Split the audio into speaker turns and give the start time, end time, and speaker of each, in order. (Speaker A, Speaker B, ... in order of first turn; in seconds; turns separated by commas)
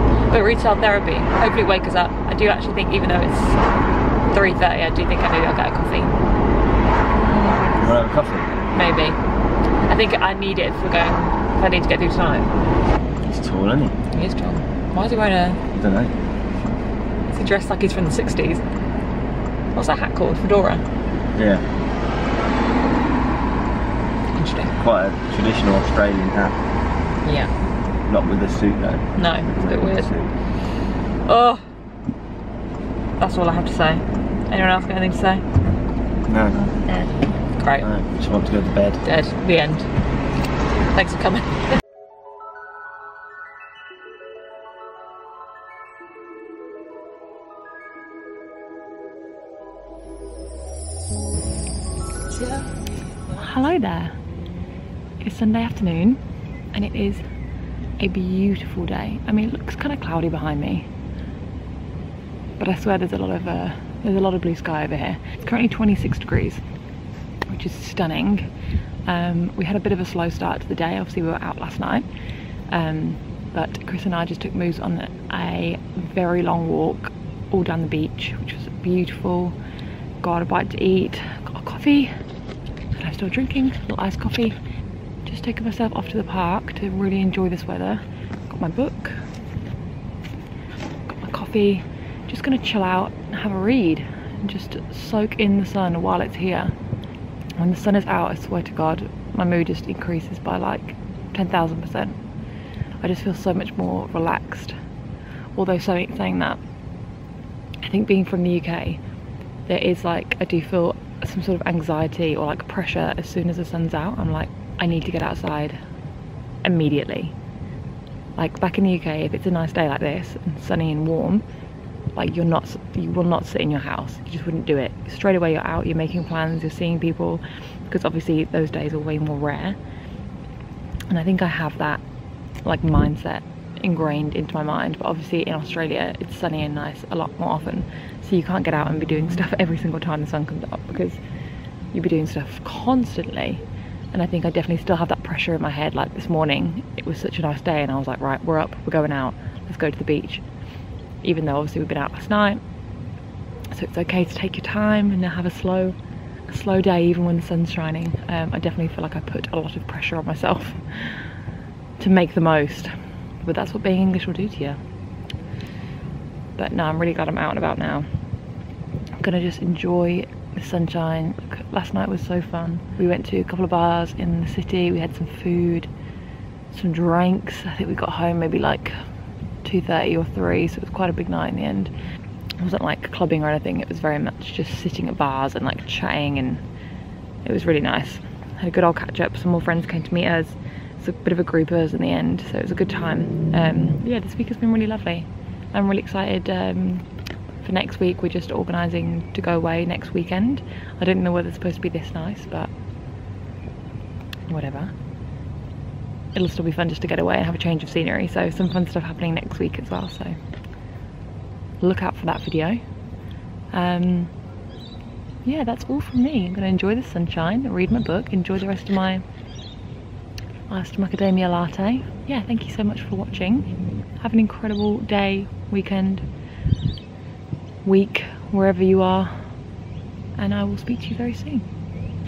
Speaker A: 0.3-3.6, Speaker A: 4.3-6.2, Speaker A: 7.2-7.7, Speaker B: 7.8-8.5, Speaker A: 8.7-9.2, Speaker A: 9.9-12.5, Speaker B: 13.3-13.9, Speaker A: 14.1-15.6, Speaker B: 15.7-16.1, Speaker A: 17.3-18.6, Speaker A: 19.8-20.8, Speaker B: 21.4-21.6, Speaker A: 24.3-24.8, Speaker B: 24.8-26.6, Speaker A: 27.2-27.5, Speaker B: 28.1-30.3, Speaker A: 29.1-30.1, Speaker A: 31.2-31.6, Speaker A: 33.2-35.4, Speaker B: 36.3-36.6, Speaker A: 37.5-37.9, Speaker B: 37.8-39.0, Speaker A: 39.0-39.9, Speaker A: 40.9-41.6, Speaker A: 53.3-54.2, Speaker A: 55.2-56.2, Speaker A: 56.7-57.2, Speaker A: 58.0-60.9, Speaker A: 62.6-66.6, Speaker A: 67.5-68.5, Speaker A: 69.0-72.1, Speaker A: 72.7-79.6, Speaker A: 80.2-82.1, Speaker A: 82.9-84.6, Speaker A: 85.2-89.2, Speaker A: 91.1-96.8, Speaker A: 97.6-102.2, Speaker A: 103.0-104.8, Speaker A: 105.5-106.6, Speaker A: 107.8-109.0, Speaker A: 109.7-115.8, Speaker A: 116.6-117.3, Speaker A: 118.3-121.5, Speaker A: 122.1-129.8, Speaker A: 131.1-132.0, Speaker A: 132.6-141.2, Speaker A: 141.9-150.4, Speaker A: 151.2-152.6, Speaker A: 153.7-156.0, Speaker A: 156.5-161.4, Speaker A: 162.0-164.8, Speaker A: 166.6-168.1, Speaker A: 169.2-175.9, Speaker A: 176.7-179.0, Speaker A: 179.6-181.9, Speaker A: 182.6-186.6, Speaker A: 187.4-197.1, Speaker A: 197.6-202.7, Speaker A: 204.5-204.9, Speaker A: 206.3-210.3, Speaker A: 211.8-212.8, Speaker A: 213.7-214.3, Speaker A: 215.4-219.2, Speaker A: 220.7-226.3, Speaker A: 227.8-229.6, Speaker A: 230.3-231.7